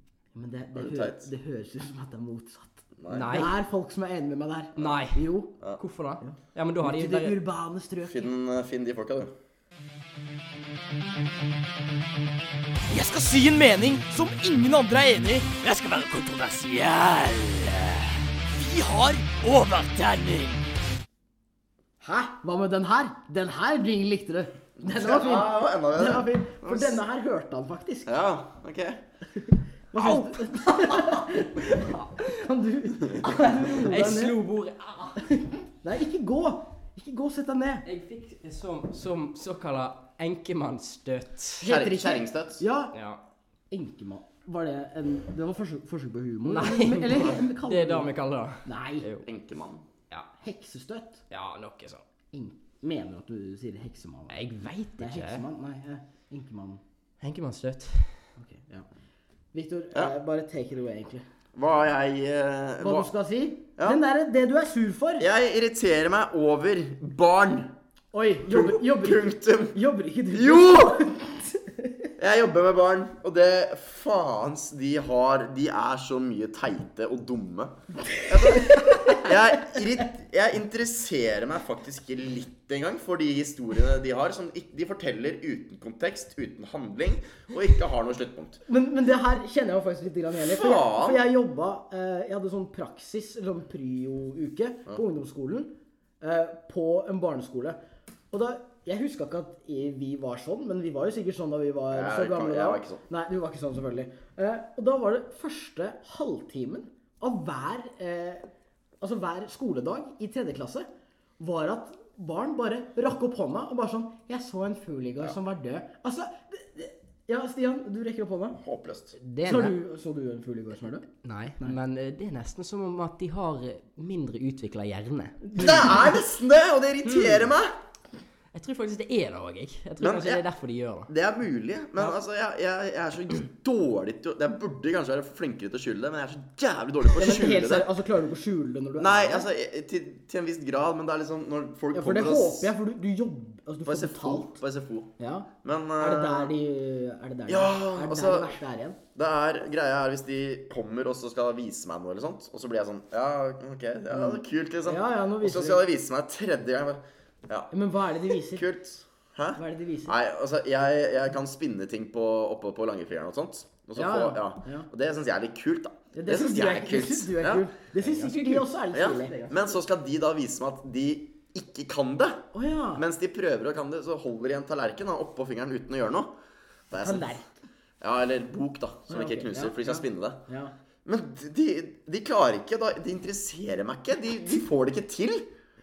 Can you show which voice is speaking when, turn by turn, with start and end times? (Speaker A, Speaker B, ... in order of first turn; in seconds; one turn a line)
Speaker A: 0.3-5.5
Speaker B: 0.7-1.3
Speaker B: 3.0-3.5
Speaker C: 3.1-3.5
Speaker C: 4.8-7.4
Speaker A: 6.2-8.3
Speaker B: 8.0-9.3
Speaker D: 12.9-20.6
Speaker A: 22.0-28.1
Speaker B: 24.8-27.0
Speaker B: 28.1-29.0
Speaker A: 29.4-34.4
Speaker C: 30.0-32.3
Speaker C: 33.2-35.3
Speaker A: 35.3-37.9
Speaker C: 37.9-41.7
Speaker B: 41.6-42.6
Speaker A: 41.6-42.9
Speaker C: 42.9-43.2
Speaker A: 43.7-48.1
Speaker C: 46.5-49.3
Speaker A: 48.6-49.1
Speaker B: 49.2-49.8
Speaker A: 50.4-51.2
Speaker C: 51.3-52.0
Speaker A: 52.3-54.4
Speaker C: 54.3-55.4
Speaker A: 55.0-56.8
Speaker C: 57.2-58.2
Speaker A: 58.4-58.9
Speaker A: 59.5-61.2
Speaker B: 61.5-63.1
Speaker A: 62.8-65.3
Speaker B: 65.2-67.7
Speaker A: 68.1-72.1
Speaker B: 68.5-69.8
Speaker B: 70.3-71.0
Speaker B: 72.2-88.6
Speaker A: 78.1-79.3
Speaker A: 88.7-97.8
Speaker B: 90.3-91.2
Speaker A: 98.3-108.5
Speaker B: 101.9-103.0
Speaker A: 109.0-110.9
Speaker A: 111.4-118.6
Speaker B: 118.6-119.2
Speaker C: 119.3-119.8
Speaker A: 119.4-121.1
Speaker C: 121.2-125.4
Speaker A: 125.5-126.0
Speaker B: 125.6-127.7
Speaker C: 127.1-127.4
Speaker C: 128.5-131.1
Speaker B: 130.0-130.4
Speaker B: 131.1-137.9
Speaker A: 137.2-139.5
Speaker B: 139.0-142.7
Speaker A: 141.9-144.6
Speaker B: 143.8-145.1
Speaker A: 145.2-149.0
Speaker B: 145.6-146.5
Speaker B: 147.5-148.6
Speaker B: 149.2-157.7
Speaker A: 154.1-155.8
Speaker A: 157.7-158.7
Speaker B: 158.3-167.7
Speaker A: 159.6-160.1
Speaker A: 163.9-164.9
Speaker A: 166.1-169.6
Speaker C: 168.0-168.7
Speaker B: 168.9-176.3
Speaker A: 172.5-173.0
Speaker B: 176.9-177.4
Speaker A: 177.0-177.6
Speaker B: 178.0-180.4
Speaker A: 179.1-180.7
Speaker B: 181.1-185.5